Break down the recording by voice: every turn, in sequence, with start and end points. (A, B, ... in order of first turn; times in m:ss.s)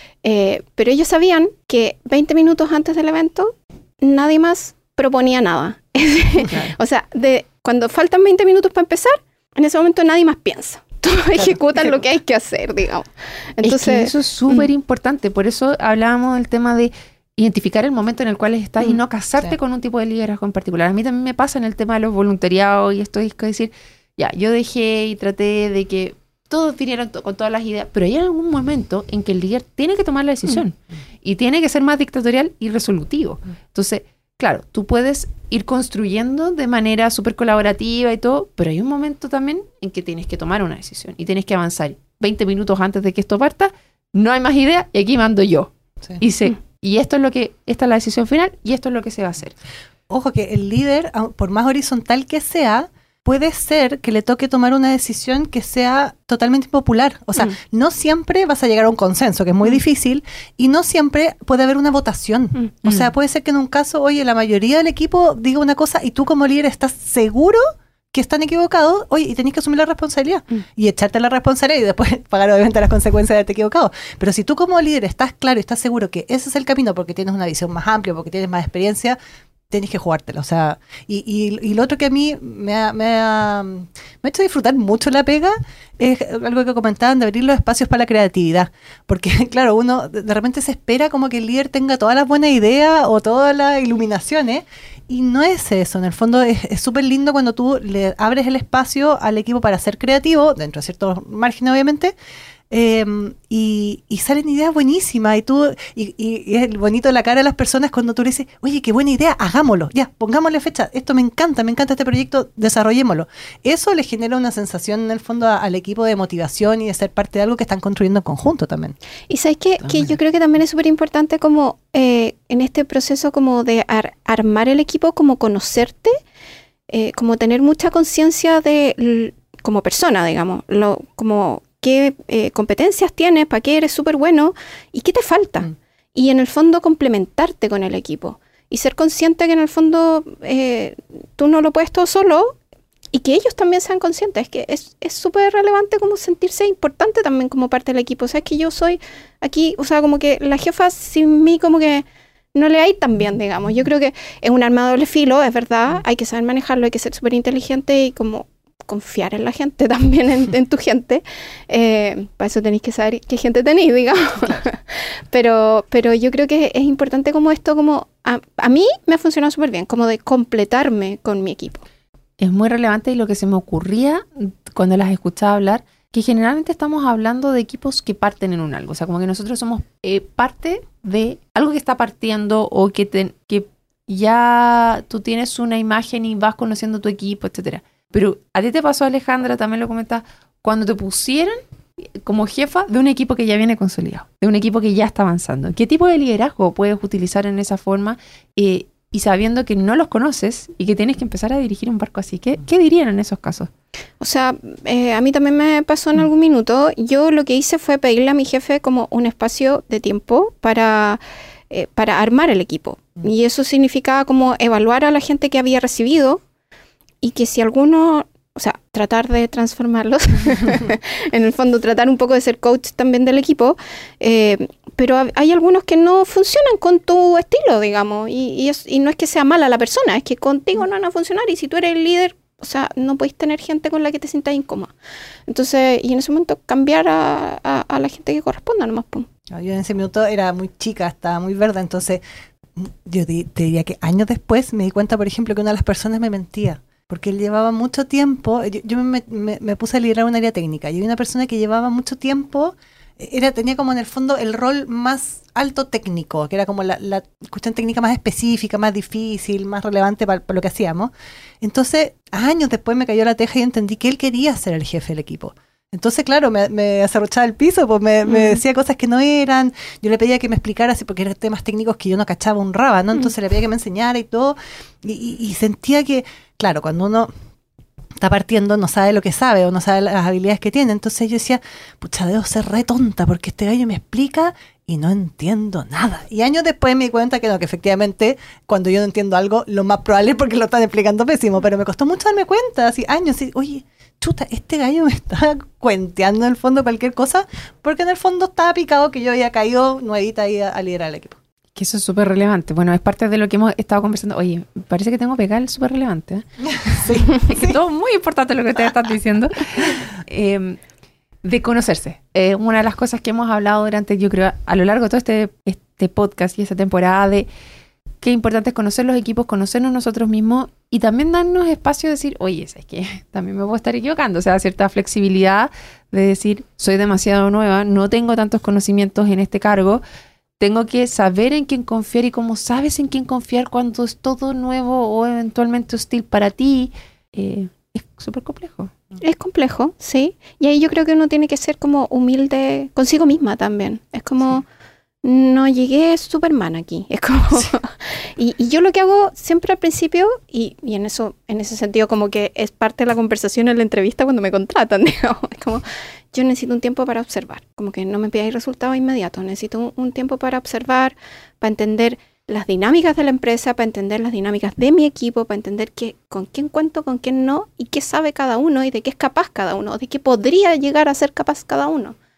0:00.2-0:14.7 A
0:06.5-0:06.7 B
0:11.4-0:12.0 B
0:13.6-0:49.6 C
0:50.1-1:19.2 B
1:19.7-1:42.1 B
1:42.7-1:59.0 B
1:59.3-2:06.2 A
1:59.8-2:00.1 C
2:06.9-2:22.6 A
2:23.1-2:51.8 A
2:52.4-3:11.6 C
3:12.2-3:23.7 C
3:24.2-3:36.4 A
3:37.2-3:54.9 A
3:55.5-3:59.3 A
3:59.5-4:02.2 B
4:02.8-4:37.3 B
4:28.3-4:28.6 A
4:38.2-5:01.4 B
5:01.8-5:10.8 C
5:06.9-5:07.8 B
5:11.4-5:17.5 C
5:18.2-5:30.0 C
5:30.6-5:38.9 C
5:39.2-5:44.6 A
5:45.2-6:12.2 A